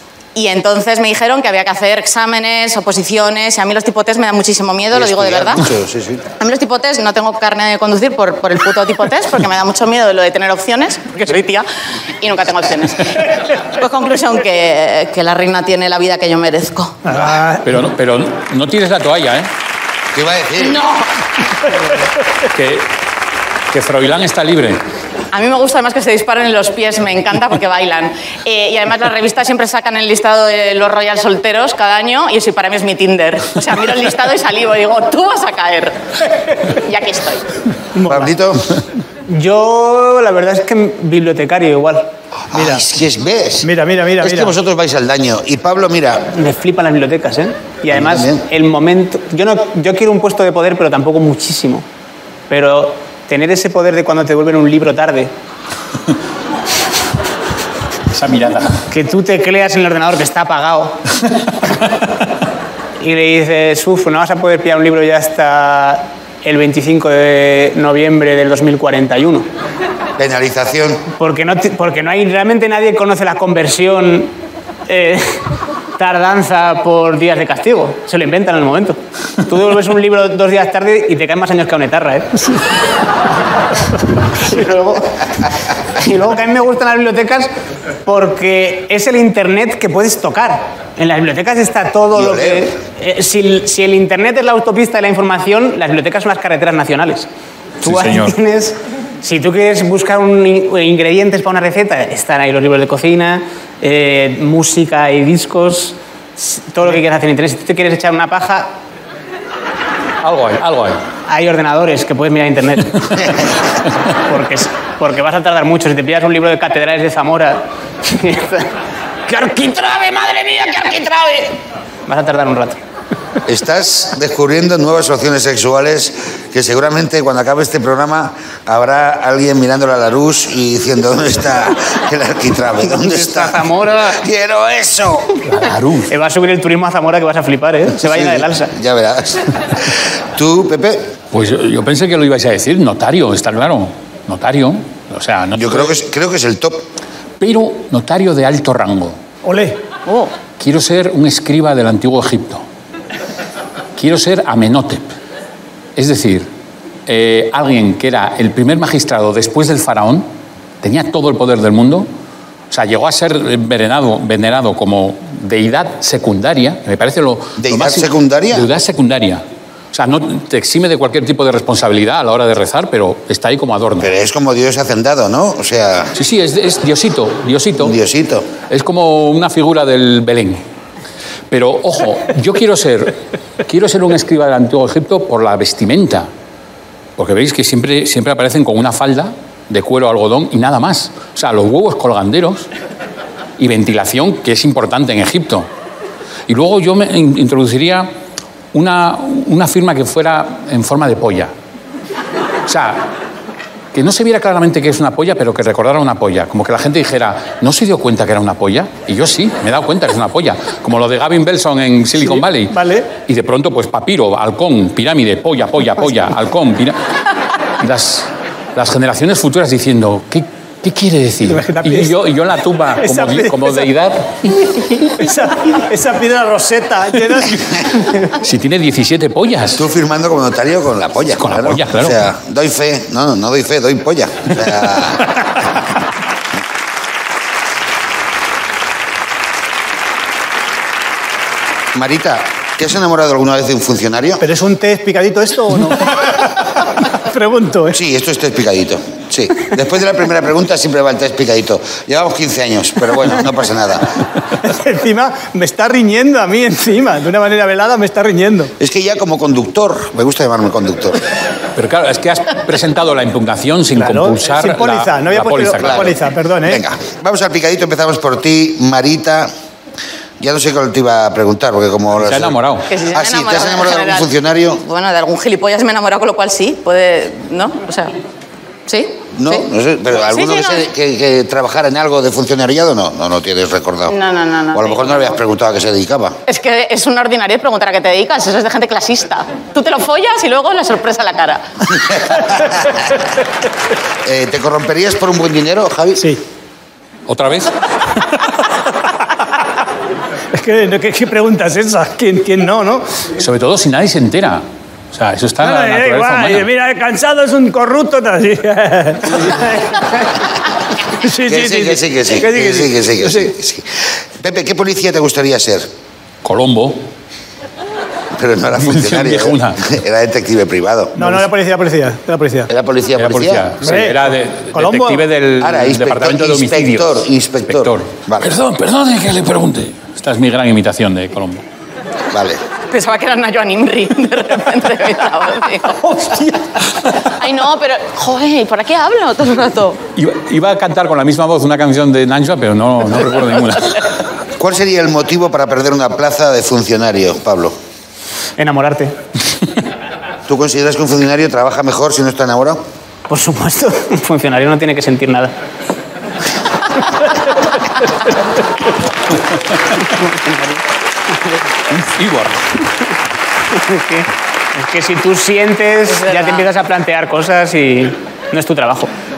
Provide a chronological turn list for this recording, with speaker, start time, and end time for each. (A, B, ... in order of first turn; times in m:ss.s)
0:00.4-0:05.6 A
0:04.9-0:06.2 B
0:06.4-0:11.7 A
0:12.2-0:17.0 A
0:17.0-0:17.7 C
0:17.6-0:19.5 D
0:20.1-0:20.8 B
0:20.6-0:21.1 A
0:22.5-0:22.9 D
0:23.7-0:24.8 D
0:25.3-0:35.9 A
0:36.5-0:37.5 A
0:37.9-0:38.3 C
0:38.0-0:38.8 B
0:39.3-0:42.1 E
0:42.5-0:43.7 B
0:42.5-0:42.8 C
0:43.6-0:44.6 C
0:44.2-0:46.3 B
0:46.3-0:51.9 E
0:47.9-0:48.5 B
0:52.5-0:55.3 E
0:58.1-0:58.8 D
0:58.9-1:01.0 E
1:03.0-1:09.5 E
1:10.2-1:11.0 B
1:11.2-1:14.3 E
1:14.9-1:15.4 E
1:16.0-1:22.7 E
1:23.9-1:25.2 E
1:26.0-1:27.5 E
1:28.1-1:37.3 E
1:32.1-1:32.7 B
1:37.8-1:48.8 E
1:37.8-1:38.4 D
1:50.2-1:51.0 D
1:51.3-1:53.4 E
1:54.2-1:58.7 E
1:59.3-2:02.8 E
2:03.5-2:15.4 B
2:12.8-2:14.2 E
2:15.4-2:16.1 D
2:16.1-2:18.7 E
2:18.0-2:21.2 B
2:21.3-2:26.0 D
2:25.5-2:26.9 B
2:27.4-2:29.2 D
2:29.4-2:29.8 C
2:30.6-2:32.6 D
2:34.0-2:35.1 D
2:36.0-2:36.5 D
2:37.1-2:40.3 D
2:40.8-2:42.1 D
2:42.7-2:54.1 D
2:47.6-2:48.7 B
2:54.0-2:56.2 B
2:56.2-2:58.0 D
2:57.8-2:58.5 B
2:58.7-3:00.6 D
3:01.5-3:06.3 D
3:07.2-3:12.7 D
3:13.6-3:15.7 D
3:16.5-3:18.1 D
3:18.7-3:21.5 D
3:22.7-3:23.1 D
3:23.9-3:37.0 D
3:32.2-3:33.1 C
3:37.8-3:44.6 D
3:41.5-3:42.2 C
3:43.0-3:43.9 C
3:45.2-3:47.8 C
3:48.3-3:49.9 D
3:49.8-3:55.4 B
3:51.4-3:52.2 D
4:01.9-4:04.4 B
4:04.4-4:08.0 C
4:07.9-4:14.2 B
4:14.6-4:18.7 C
4:18.8-4:21.2 B
4:21.8-4:26.1 D
4:24.0-4:26.8 C
4:25.8-4:29.5 B
4:30.4-4:34.8 B
4:32.2-4:32.9 D
4:32.9-4:34.3 A
4:34.8-4:38.2 A
4:38.9-4:40.8 A
4:39.3-4:44.2 B
4:44.1-4:45.4 A
4:44.7-4:46.4 B
4:46.5-4:52.3 A
4:52.0-4:53.0 B
4:54.2-4:56.2 B
4:57.3-4:57.7 D
5:00.5-5:03.1 C
5:03.4-5:06.7 D
5:05.6-5:10.1 C
5:11.2-5:13.5 C
5:11.3-5:15.9 B
5:16.4-5:17.0 D
5:18.4-5:21.4 B
5:18.8-5:19.8 D
5:21.2-5:22.7 C
5:22.7-5:23.7 B
5:23.2-5:31.6 D
5:23.8-5:25.2 C
5:25.6-5:28.5 B
5:32.3-5:32.6 B
5:32.9-5:36.5 A
5:37.0-5:40.0 A
5:40.2-5:44.1 D
5:44.6-5:47.8 B
5:48.6-5:49.2 E
5:50.5-5:52.8 B
5:53.3-5:55.5 E
6:00.0-6:00.8 E
6:01.9-6:02.8 D
6:03.7-6:09.1 E
6:06.2-6:06.7 A